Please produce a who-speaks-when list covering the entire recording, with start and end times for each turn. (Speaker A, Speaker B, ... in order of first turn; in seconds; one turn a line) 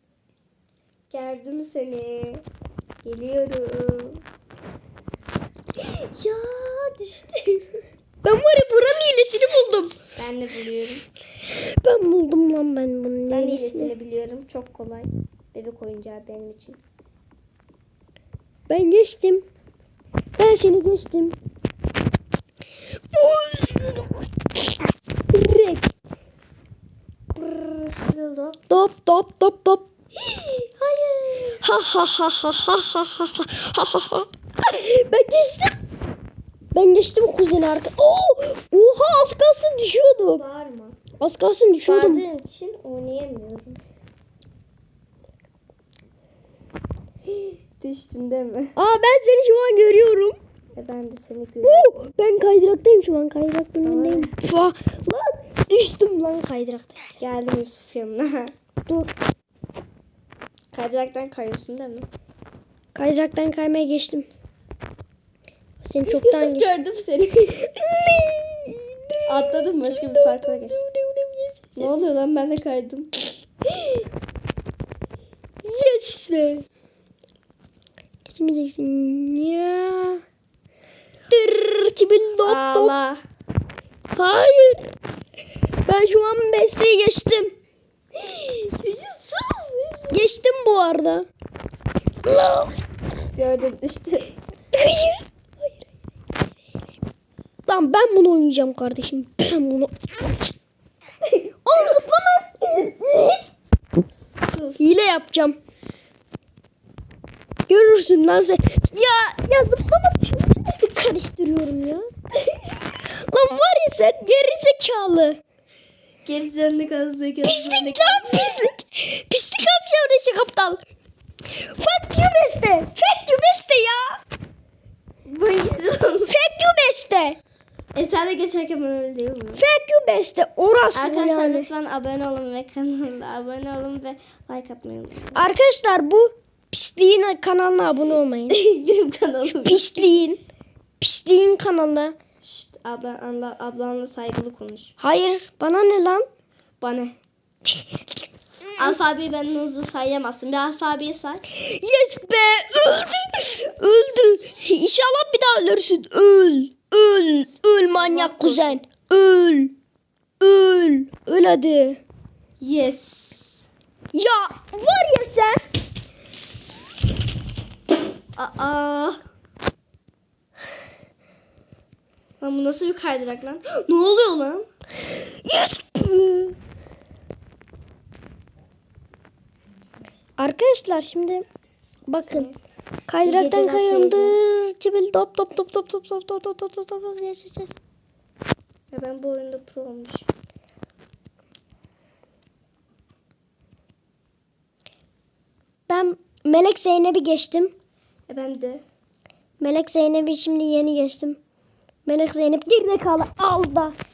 Speaker A: 1.1-2.4
Speaker A: 3.0-4.2
Speaker A: 5.8-7.7
Speaker B: 8.2-9.9
Speaker A: 10.2-11.1
Speaker B: 11.8-13.9
Speaker A: 13.3-16.8
Speaker B: 18.7-19.4
Speaker B: 20.4-21.4
Speaker B: 23.1-24.2
Speaker B: 25.3-25.9
Speaker A: 27.3-28.8
Speaker B: 28.7-29.9
Speaker A: 30.2-31.6
Speaker B: 31.6-35.8
Speaker B: 36.7-40.4
Speaker A: 40.3-41.0
Speaker B: 41.2-42.2
Speaker A: 41.8-43.8
Speaker A: 47.8-48.8
Speaker B: 48.8-50.4
Speaker A: 50.7-52.1
Speaker B: 51.6-57.0
Speaker A: 53.8-54.3
Speaker A: 57.2-58.5
Speaker B: 58.9-59.1
Speaker A: 60.7-62.1
Speaker B: 62.9-64.3
Speaker B: 65.8-66.7
Speaker A: 66.1-67.6
Speaker B: 67.6-69.1
Speaker A: 69.3-70.8
Speaker B: 69.8-71.9
Speaker A: 71.8-73.1
Speaker B: 75.6-76.7
Speaker B: 78.2-80.2
Speaker B: 81.3-82.9
Speaker A: 82.4-83.2
Speaker B: 84.1-84.9
Speaker B: 85.8-87.5
Speaker A: 88.2-90.2
Speaker B: 90.1-91.3
Speaker B: 92.2-92.8
Speaker A: 93.3-94.3
Speaker B: 94.7-95.2
Speaker B: 97.7-100.1
Speaker B: 101.7-103.4
Speaker A: 104.2-104.9
Speaker B: 104.8-105.6
Speaker B: 107.7-112.1
Speaker B: 113.2-115.4
Speaker A: 116.2-118.5
Speaker B: 117.4-120.8
Speaker B: 121.5-124.2
Speaker A: 125.3-126.3
Speaker B: 126.3-127.4
Speaker A: 128.0-129.6
Speaker B: 129.6-131.7
Speaker A: 130.9-135.4
Speaker B: 135.3-138.6
Speaker A: 138.5-140.2
Speaker B: 139.5-140.4
Speaker B: 141.0-142.2
Speaker A: 142.4-144.9
Speaker B: 145.0-146.3
Speaker A: 146.8-147.2
Speaker A: 148.8-151.4
Speaker B: 151.5-159.7
Speaker A: 157.9-158.8
Speaker B: 160.4-162.0
Speaker A: 162.6-163.7
Speaker B: 164.1-165.7
Speaker A: 168.4-169.2
Speaker A: 172.4-174.7
Speaker B: 175.4-176.5
Speaker B: 180.4-181.4
Speaker B: 182.1-182.5
Speaker A: 182.3-182.6
Speaker B: 183.1-187.8
Speaker A: 183.2-184.4
Speaker A: 188.9-190.3
Speaker B: 195.9-197.7
Speaker A: 198.3-198.8
Speaker B: 199.6-201.4
Speaker B: 202.1-204.0